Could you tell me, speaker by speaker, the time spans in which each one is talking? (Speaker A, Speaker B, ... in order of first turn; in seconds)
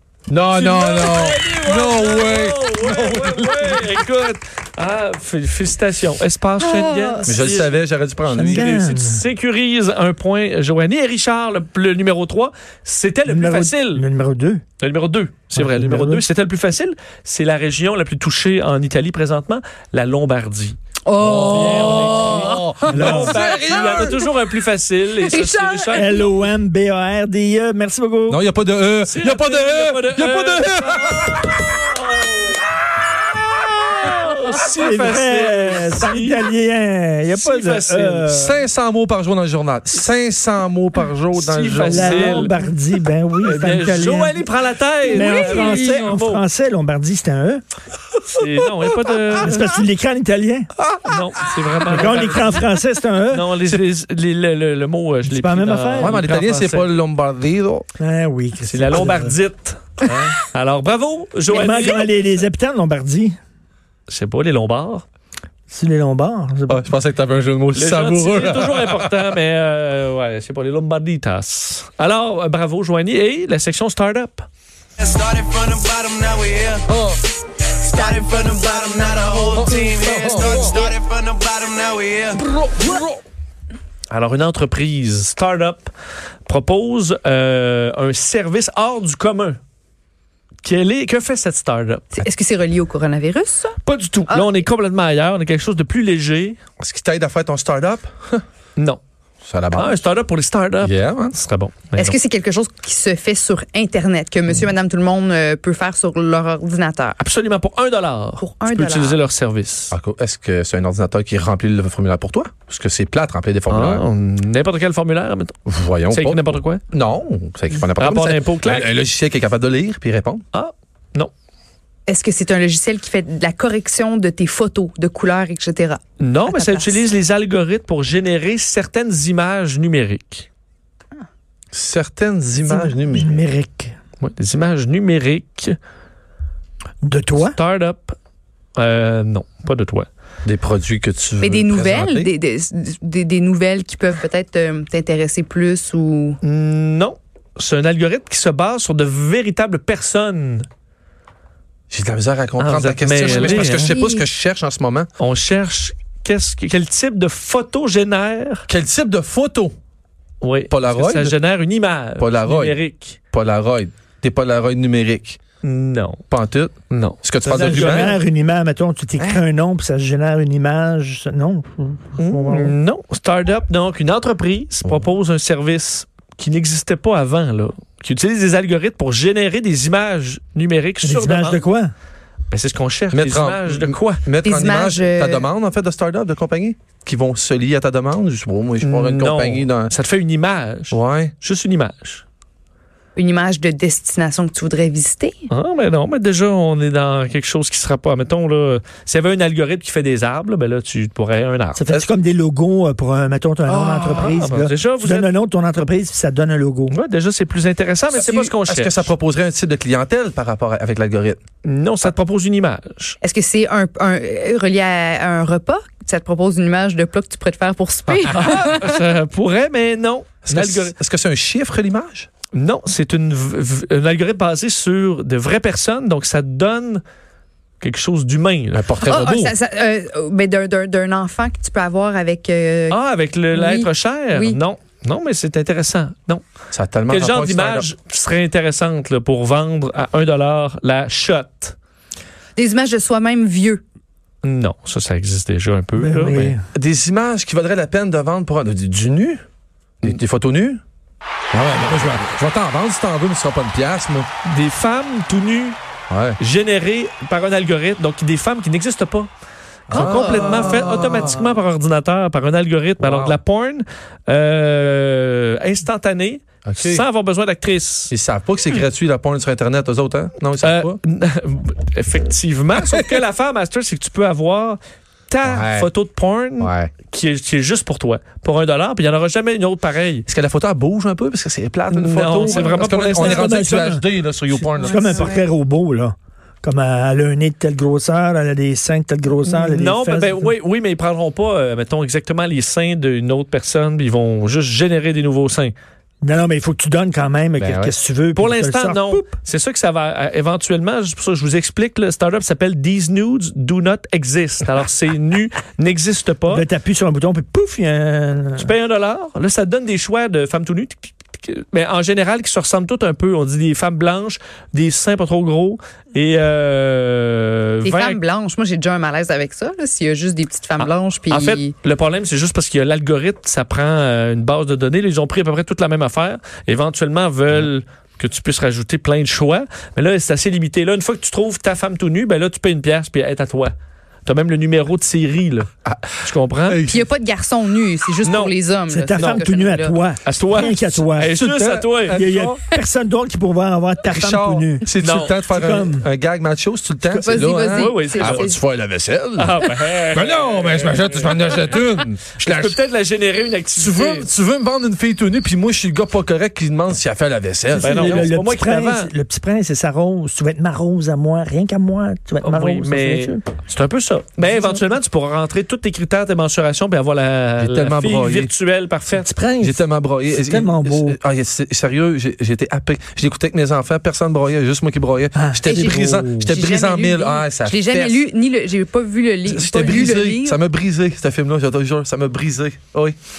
Speaker A: 0.3-4.0, 7.2-8.7, 21.2-24.1, 28.3-31.5, 38.3-42.5, 50.8-51.2, 56.0-57.9, 66.7-69.1, 76.8-77.2, 79.5-80.9, 82.3-83.2, 96.8-98.4, 99.4-100.0, 100.8-101.4, 109.9-114.0, 115.7-120.4, 131.7-133.4, 140.4-142.3, 151.9-155.1, 158.7-159.7, 160.7-161.3, 162.2-162.8, 163.3-165.4, 166.3-168.1, 183.1-189.9, 190.9-191.3, 208.7-211.4, 220.5-222.3, 228.7-229.5, 236.7-237.9, 246.8-249.4, 250.0-250.8, 251.5-254.3, 256.1-256.4, 259.9-261.4, 263.0-263.4, 266.6-267.0, 268.1-271.0, 275.4-275.9, 276.6-276.9, 280.3-285.1, 297.6-297.9, 335.8-337.1, 341.3-342.6, 344.1-349.5, 350.1-352.8, 353.8-358.3, 367.6-368.5, 369.6-378.2, 379.4-383.2
Speaker B: 0.5-7.8, 8.5-14.0, 14.8-26.2, 29.1-32.5, 34.0-36.5, 37.3-38.4, 41.3-42.5, 43.4-46.4, 48.3-49.8, 51.0-56.9, 58.6-62.1, 64.1-65.0, 67.7-74.5, 84.1-85.9, 86.5-89.6, 90.6-92.2, 93.8-96.6, 99.7-102.2, 107.2-109.9, 113.7-115.6, 116.1-116.8, 118.0-118.9, 120.5-121.3, 126.2-130.5, 134.2-135.7, 137.4-138.2, 138.8-140.1, 146.4-150.7, 152.6-153.9, 155.2-158.7, 160.4-163.2, 165.6-166.2, 166.9-168.2, 172.2-181.6, 182.5-184.2, 188.8-192.2, 195.5-201.8, 203.9-205.3, 206.9-209.1, 211.6-213.2, 218.3-220.9, 222.5-227.0, 227.8-228.8, 232.9-236.4, 237.1-241.7, 244.4-246.6, 254.4-255.8, 256.4-259.3, 259.9-268.1, 270.6-274.8, 275.3-280.2, 281.9-283.7, 289.4-295.7, 298.4-306.6, 308.6-318.2, 320.8-333.7, 334.2-335.7, 336.2-336.8, 338.2-338.5, 339.2-339.4, 340.2-342.2, 345.0-345.3, 347.7-348.5, 349.4-351.8, 352.4-354.3, 357.8-359.1, 362.4-369.3
Speaker C: 6.6-7.4, 21.0-24.0, 25.2-26.3, 45.4-45.9, 78.2-79.6, 92.1-94.6, 102.0-107.2, 108.4-109.2, 122.1-127.0, 141.4-146.4, 153.2-154.2, 184.4-185.4, 193.2-195.5, 208.1-208.5, 213.2-218.9, 229.1-233.0, 233.5-234.6, 242.6-243.8, 259.9-260.8, 282.4-283.4, 284.8-285.4, 317.8-321.7, 336.9-340.0, 347.2-348.6, 364.4-364.8, 375.6-380.6
Speaker D: 8.3-9.3, 13.2-14.6, 15.5-16.2, 22.9-23.4, 25.9-28.4, 34.7-38.6, 41.8-44.5, 45.1-47.6, 49.3-50.7, 51.9-53.5, 55.2-56.2, 58.0-59.3, 61.5-63.4, 65.7-66.9, 132.8-133.9, 137.0-137.6, 167.5-172.8, 181.0-181.9, 201.8-206.9, 246.0-246.6, 282.9-290.5, 296.2-299.2, 306.5-308.7, 338.9-341.4, 342.1-344.9, 345.4-346.1, 347.1-347.4, 357.7-363.4, 369.1-371.2, 375.3-376.3
Speaker E: 75.0-76.8, 77.9-82.3